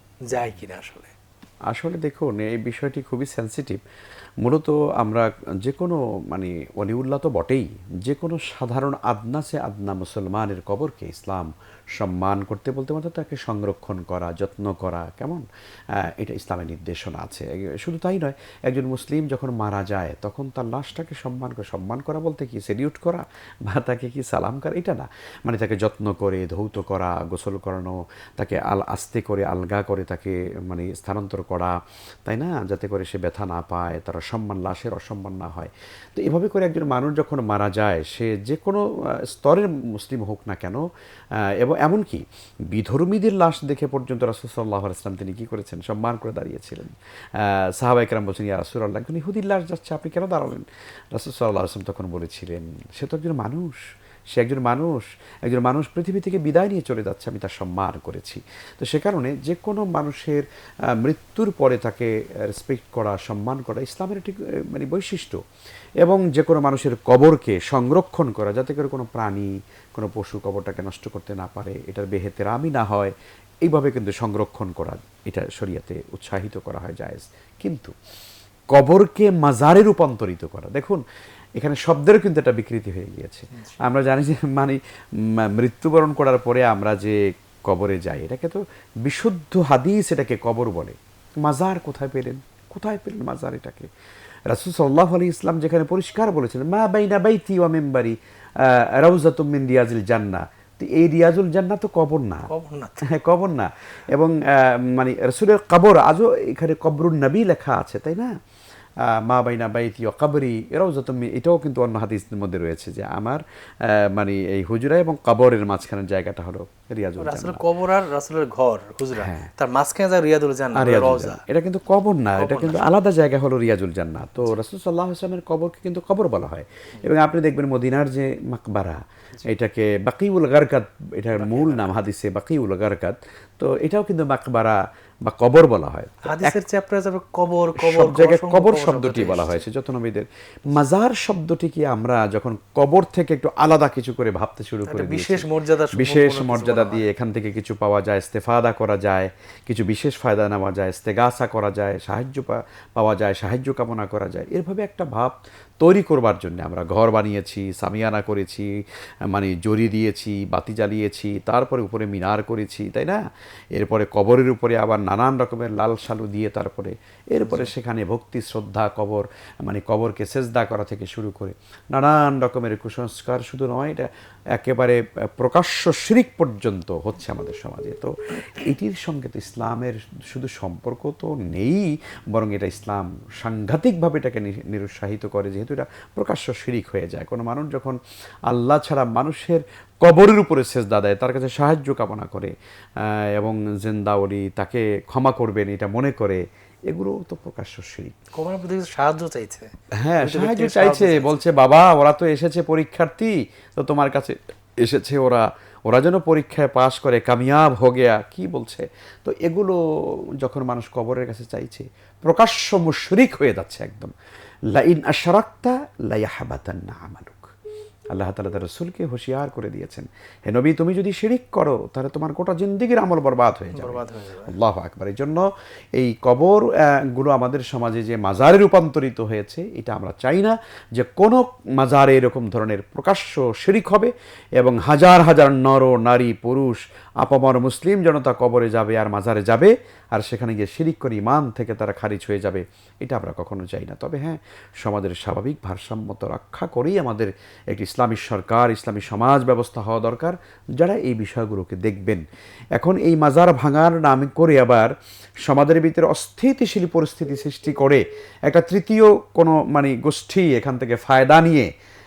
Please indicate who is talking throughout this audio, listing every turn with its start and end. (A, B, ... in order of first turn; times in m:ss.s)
0:00.3-0:01.1 A
0:01.7-0:03.8 B
0:04.4-0:31.7 B
0:32.2-0:40.8 B
0:41.4-0:53.8 B
0:54.3-1:05.4 B
1:06.0-1:17.9 B
1:18.7-1:21.0 B
1:21.6-1:33.9 B
1:34.5-1:42.5 B
1:42.5-1:43.1 A
1:43.1-1:48.3 B
1:49.0-1:57.6 B
1:57.2-2:01.4 A
1:59.1-1:59.5 B
2:00.7-2:16.6 B
2:02.4-2:02.9 A
2:11.3-2:12.0 A
2:16.2-2:19.6 A
2:17.8-2:43.2 B
2:24.9-2:27.1 A
2:43.7-3:08.0 B
2:47.4-2:47.7 A
3:08.5-3:18.1 B
3:18.3-3:21.4 A
3:20.0-3:34.1 B
3:34.7-3:37.5 B
3:38.1-4:12.2 B
3:43.7-3:44.5 A
4:12.7-4:14.9 B
4:15.4-4:21.7 B